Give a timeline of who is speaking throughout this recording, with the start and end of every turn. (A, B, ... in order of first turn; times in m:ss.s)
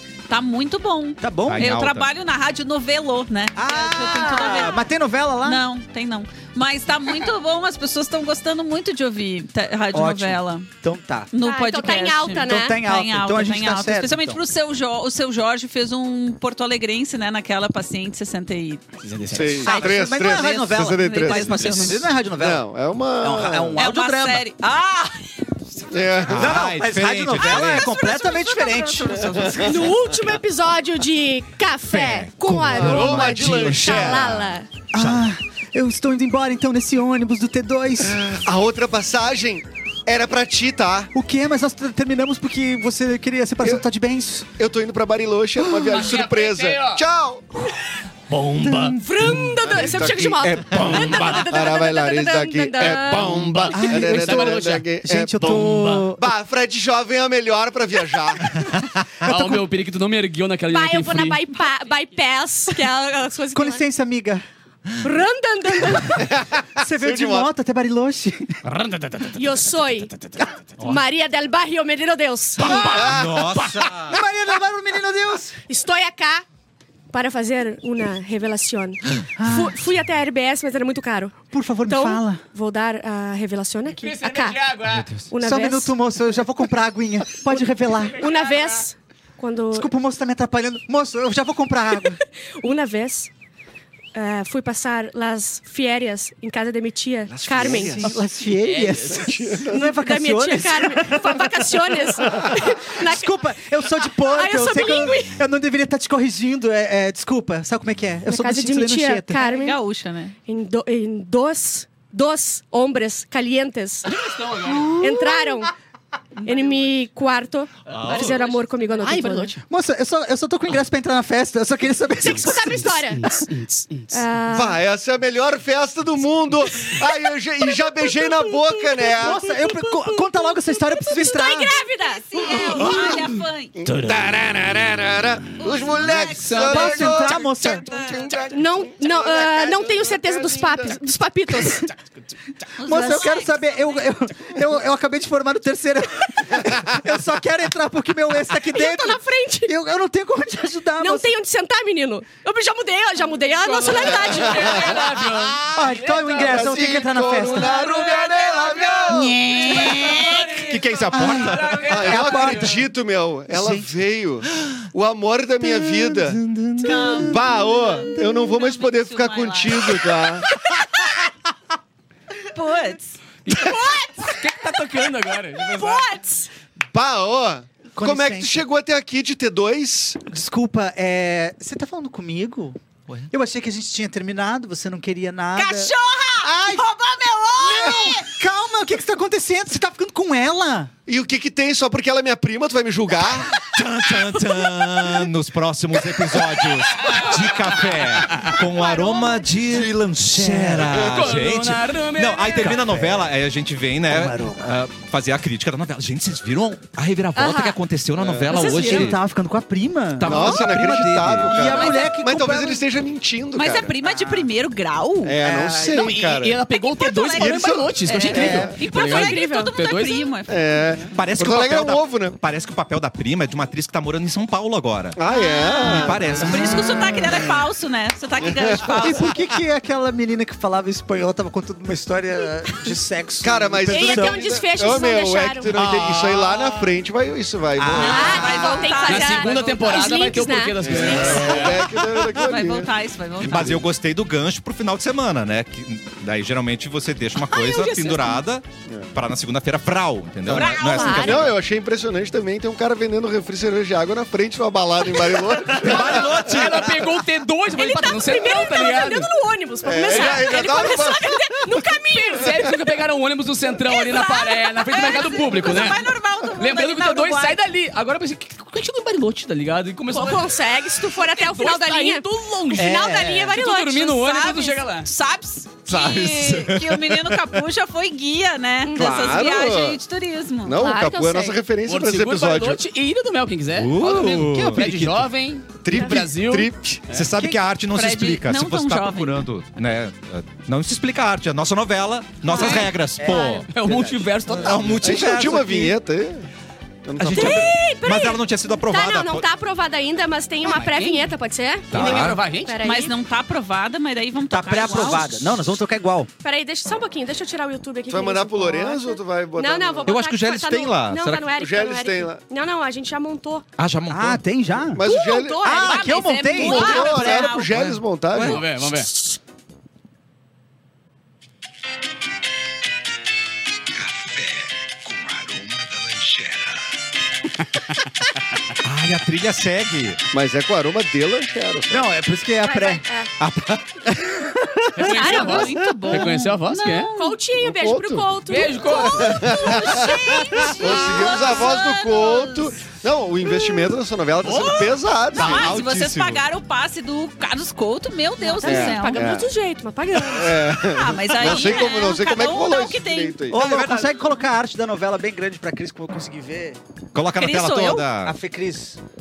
0:00.3-0:04.8 A
0:01.2-0:01.8 B
0:01.5-0:02.1 C
0:03.6-0:05.6 B
0:05.4-0:10.7 A
0:09.9-0:11.3 B
0:11.3-0:18.9 A
0:11.4-0:12.8 D
0:12.4-0:14.4 B
0:19.0-0:19.7 E
0:19.3-0:23.8 F
0:19.6-0:22.7 B
0:19.8-0:22.1 A
0:23.2-0:24.4 B
0:23.8-0:25.2 A
0:25.9-0:26.7 F
0:26.3-0:28.0 C
0:26.3-0:30.1 B
0:27.3-0:29.5 A
0:29.6-0:34.7 D
0:31.9-0:35.3 C
0:32.7-0:34.1 B
0:32.7-0:33.7 F
0:34.9-0:38.3 B
0:38.1-0:41.1 F
0:41.1-0:44.5 B
0:44.6-0:47.5 F
0:45.8-0:47.0 E
0:48.3-0:51.4 C
0:48.3-0:49.0 B
0:49.0-0:53.7 D
0:49.6-0:58.5 F
0:53.2-0:54.9 E
0:53.8-0:56.2 B
0:55.5-0:56.0 E
0:59.2-1:01.5 E
0:59.3-0:59.6 B
1:00.7-1:03.9 D
1:03.5-1:04.4 B
1:05.0-1:06.3 D
1:06.2-1:07.5 F
1:06.8-1:08.6 B
1:08.6-1:10.6 E
1:09.4-1:10.1 D
1:10.8-1:13.0 D
1:12.6-1:13.5 F
1:12.7-1:14.2 C
1:13.0-1:15.6 B
1:15.7-1:16.4 D
1:17.1-1:24.6 D
1:19.4-1:19.8 B
1:21.5-1:22.4 B
1:23.9-1:25.1 E
1:25.3-1:26.0 D
1:25.4-1:28.3 B
1:28.1-1:29.9 D
1:28.2-1:28.8 E
1:29.7-1:32.2 B
1:32.6-1:33.3 D
1:34.1-1:38.1 D
1:37.3-1:38.3 F
1:37.9-1:49.4 B
1:38.6-1:39.5 E
1:39.1-1:39.9 F
1:39.7-1:43.4 D
1:44.1-1:45.4 D
1:48.3-1:49.8 D
1:49.4-1:50.4 A
1:50.5-1:54.2 D
1:54.1-1:55.0 E
1:54.8-1:55.4 A
1:54.9-1:55.7 D
1:56.4-1:56.7 A
1:56.4-1:59.6 D
1:57.9-1:58.5 C
1:59.0-1:59.6 E
1:59.0-2:03.1 B
2:02.2-2:03.4 D
2:03.2-2:04.1 E
2:04.1-2:04.8 D
2:04.5-2:09.4 F
2:07.7-2:13.2 D
2:09.2-2:11.8 B
2:12.0-2:13.8 A
2:12.7-2:13.2 F
2:13.8-2:21.0 F
2:15.6-2:18.4 A
2:16.4-2:16.8 E
2:16.5-2:17.8 B
2:18.5-2:21.9 D
2:21.9-2:22.4 E
2:22.8-2:24.0 A
2:22.8-2:31.4 B
2:28.7-2:29.7 D
2:31.0-2:35.1 D
2:33.6-2:36.7 E
2:34.2-2:34.8 F
2:34.4-2:34.8 A
2:35.7-2:37.8 B
2:36.4-2:39.6 F
2:37.6-2:42.6 A
2:39.1-2:40.3 B
2:40.6-2:41.9 C
2:41.1-2:42.8 B
2:41.8-2:46.4 F
2:43.5-2:43.9 B
2:45.7-2:47.2 C
2:46.8-2:47.2 D
2:46.8-2:50.2 A
2:47.0-2:50.5 F
2:52.5-2:53.2 A
2:53.4-2:56.1 E
2:53.5-2:54.5 D
2:55.6-2:56.5 D
2:56.9-3:00.2 F
2:58.0-2:58.6 B
3:00.3-3:02.8 B
3:03.3-3:06.9 B
3:05.6-3:08.3 A
3:07.6-3:10.9 B
3:07.8-3:08.1 D
3:11.1-3:13.5 F
3:13.4-3:29.2 C
3:18.7-3:19.4 D
3:19.6-3:21.1 B
3:20.9-3:22.9 E
3:22.7-3:23.3 F
3:24.1-3:24.7 B
3:27.4-3:27.8 D
3:28.2-3:28.7 F
3:28.5-3:32.8 B
3:28.6-3:29.0 D
3:30.2-3:31.6 C
3:30.2-3:34.0 F
3:31.6-3:32.5 A
3:33.6-3:35.4 A
3:35.2-3:36.6 F
3:35.4-3:36.1 B
3:35.9-3:40.3 E
3:36.8-3:40.8 A
3:37.3-3:38.7 F
3:38.2-3:38.8 B
3:39.0-3:39.7 D
3:40.5-3:42.4 F
3:41.2-3:45.2 C
3:45.2-3:46.7 F
3:45.3-3:46.0 D
3:45.5-3:49.3 A
3:45.8-3:47.2 C
3:46.4-3:47.4 B
3:48.4-3:48.9 F
3:48.8-3:54.5 B
3:53.4-3:58.7 F
3:53.9-3:55.8 D
3:55.7-3:56.7 C
3:57.8-3:58.9 B
3:58.0-4:00.4 A
3:58.0-4:01.7 D
3:59.0-4:01.8 E
4:00.8-4:02.9 F
4:01.8-4:02.2 C
4:02.3-4:03.8 A
4:03.4-4:11.6 C
4:03.4-4:03.8 F
4:07.4-4:08.4 E
4:08.9-4:09.1 F
4:10.5-4:16.4 F
4:10.5-4:11.4 A
4:10.9-4:11.4 D
4:15.7-4:17.0 C
4:15.9-4:19.3 E
4:17.7-4:22.7 D
4:19.8-4:21.8 F
4:22.1-4:30.6 E
4:23.8-4:25.8 D
4:24.9-4:27.6 A
4:30.1-4:34.2 D
4:31.1-4:35.1 E
4:32.8-4:33.5 B
4:34.1-4:40.9 A
4:35.9-4:37.5 C
4:38.8-4:39.4 D
4:39.0-4:40.0 F
4:40.6-4:42.8 F
4:40.8-4:41.6 D
4:41.9-4:47.3 E
4:43.7-4:45.3 C
4:45.8-4:47.1 F
4:45.9-4:46.2 D
4:47.1-4:53.7 C
4:47.3-4:47.6 B
4:47.9-4:49.5 A
4:52.5-4:53.4 D
4:52.5-4:52.8 A
4:52.6-4:52.9 E
4:53.1-4:54.9 B
4:53.7-4:55.2 E
4:54.5-4:56.0 C
4:55.0-4:56.5 F
4:57.0-4:57.7 F
4:57.2-4:59.5 C
4:57.3-5:03.2 D
5:00.6-5:01.3 E
5:01.9-5:02.8 E
5:01.9-5:02.5 C
5:02.8-5:05.6 A
5:04.4-5:06.3 B
5:06.4-5:13.7 D
5:08.1-5:10.2 F
5:10.0-5:11.5 C
5:11.6-5:12.4 F
5:13.8-5:14.6 C
5:14.1-5:15.1 B
5:14.9-5:15.8 F
5:15.0-5:17.5 D
5:15.6-5:17.2 B
5:15.7-5:18.0 A
5:16.6-5:18.7 F
5:18.3-5:18.6 C
5:18.4-5:19.1 E
5:24.1-5:26.7 C
5:27.6-5:27.9 E
5:28.8-5:30.2 C
5:30.3-5:32.1 F
5:31.9-5:33.1 B
5:32.6-5:33.3 D
5:33.4-5:33.9 C
5:34.6-5:35.1 B
5:35.0-5:37.1 E
5:35.0-5:37.4 A
5:35.1-5:35.6 D
5:37.2-5:41.5 D
5:37.6-5:45.7 F
5:38.5-5:39.5 E
5:38.9-5:42.8 A
5:44.4-5:49.3 A
5:45.4-5:46.4 C
5:48.4-5:50.8 D
5:48.6-5:49.5 F
5:50.3-5:53.7 F
5:50.9-5:53.4 A
5:51.6-5:51.9 D
5:53.5-5:56.8 B
5:53.5-5:54.2 C
5:57.1-5:58.4 C
5:57.4-5:58.1 A
5:58.2-5:59.0 B